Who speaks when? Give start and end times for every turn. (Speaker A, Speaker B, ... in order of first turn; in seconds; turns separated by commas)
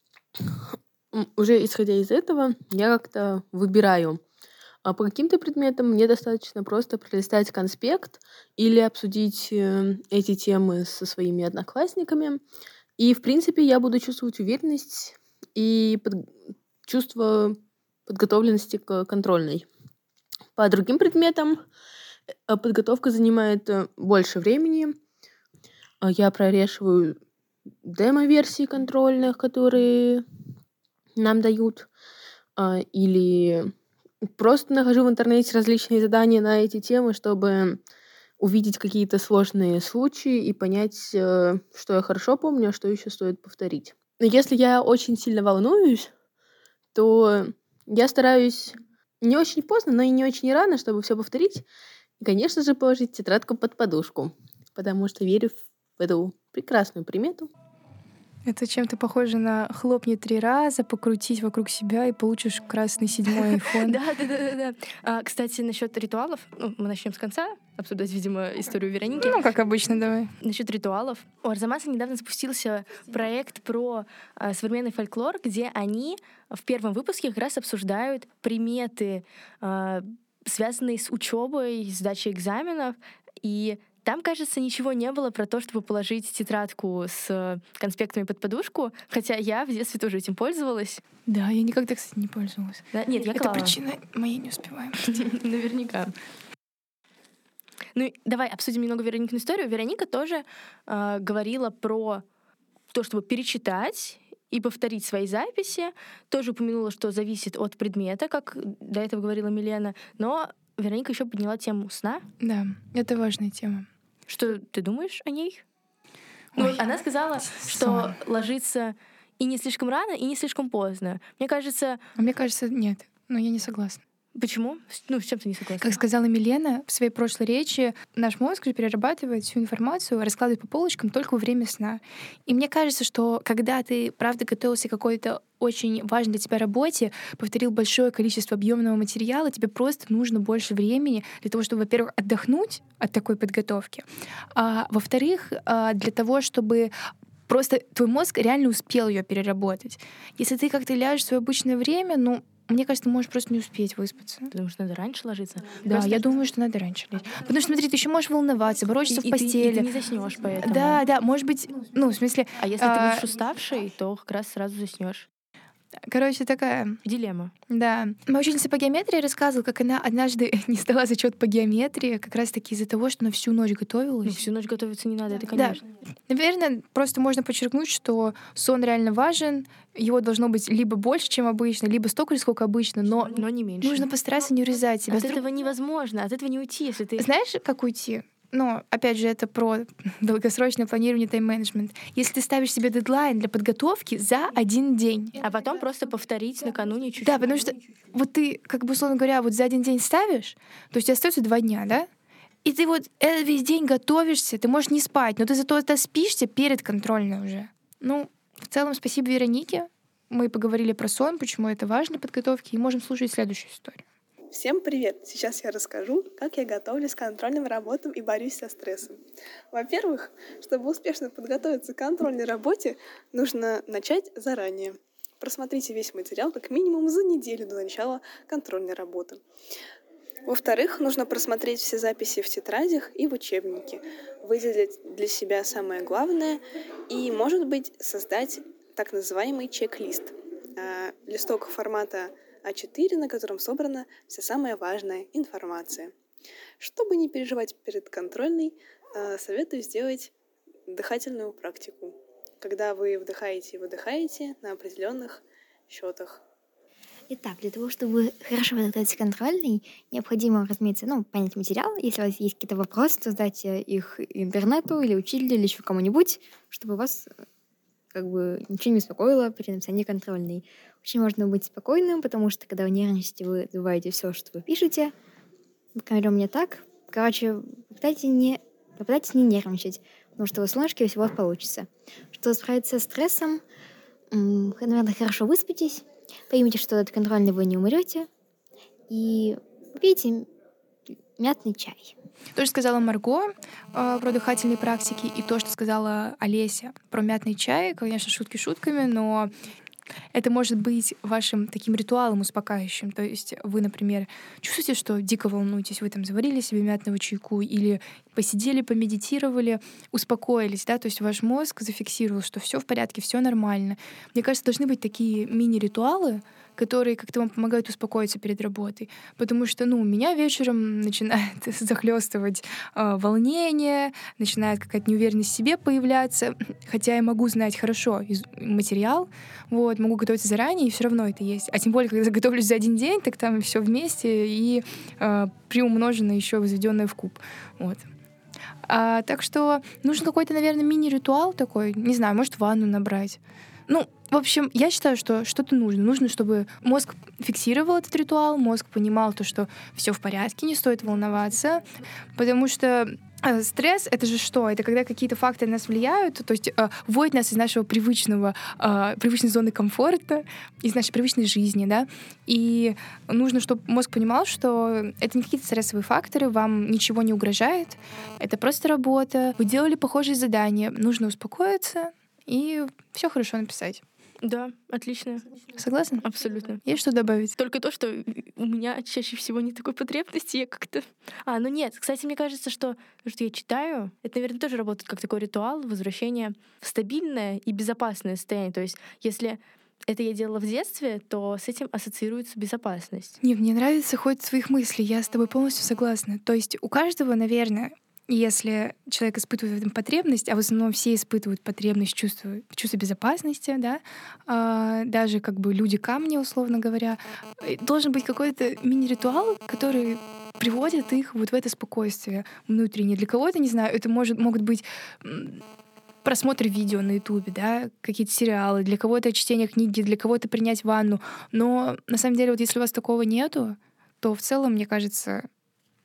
Speaker A: 0.4-4.2, Speaker A: 4.8-12.4, Speaker A: 13.0-16.3, Speaker A: 16.9-19.7, Speaker A: 20.6-21.7, Speaker A: 22.5-25.0, Speaker A: 26.0-27.2, Speaker A: 27.8-30.3, Speaker A: 31.2-31.9, Speaker A: 32.6-33.7, Speaker A: 34.2-37.8, Speaker A: 38.4-46.1, Speaker A: 47.0-51.6, Speaker A: 52.2-57.5, Speaker B: 58.5-64.0, Speaker C: 63.5-69.4, Speaker B: 69.2-70.3, Speaker C: 70.4-91.0, Speaker B: 91.3-92.8, Speaker C: 92.9-93.8, Speaker B: 93.3-95.2, Speaker C: 95.0-96.1, Speaker C: 98.0-102.2, Speaker C: 102.9-112.3, Speaker B: 112.4-113.9, Speaker C: 114.3-115.6, Speaker B: 116.5-116.9, Speaker C: 116.6-122.0, Speaker B: 117.4-118.2, Speaker B: 122.2-124.0, Speaker C: 124.3-126.0, Speaker B: 125.8-146.9, Speaker B: 147.5-154.5, Speaker C: 154.5-156.3, Speaker B: 155.9-159.9, Speaker C: 159.1-161.0, Speaker B: 160.6-163.2, Speaker C: 162.6-165.3, Speaker B: 166.1-167.0, Speaker C: 167.0-167.5, Speaker B: 167.7-174.4, Speaker C: 174.2-175.9, Speaker B: 175.6-185.4, Speaker C: 183.3-184.1, Speaker C: 185.1-187.3, Speaker B: 187.2-195.4, Speaker C: 195.4-197.7, Speaker B: 197.2-202.1, Speaker B: 202.7-214.0, Speaker D: 214.5-219.2, Speaker D: 219.7-229.4, Speaker D: 230.5-246.1, Speaker D: 246.8-250.3, Speaker D: 250.9-256.4, Speaker E: 257.3-267.3, Speaker E: 268.1-275.1, Speaker E: 275.9-283.6, Speaker E: 284.3-288.3, Speaker E: 289.1-290.5, Speaker E: 291.4-292.1, Speaker B: 292.6-299.5, Speaker B: 300.3-338.1, Speaker B: 338.9-374.0, Speaker C: 374.4-375.6, Speaker B: 375.8-376.2, Speaker C: 376.2-376.8, Speaker B: 376.9-377.6, Speaker C: 377.6-393.4, Speaker B: 393.4-415.6, Speaker B: 416.2-425.5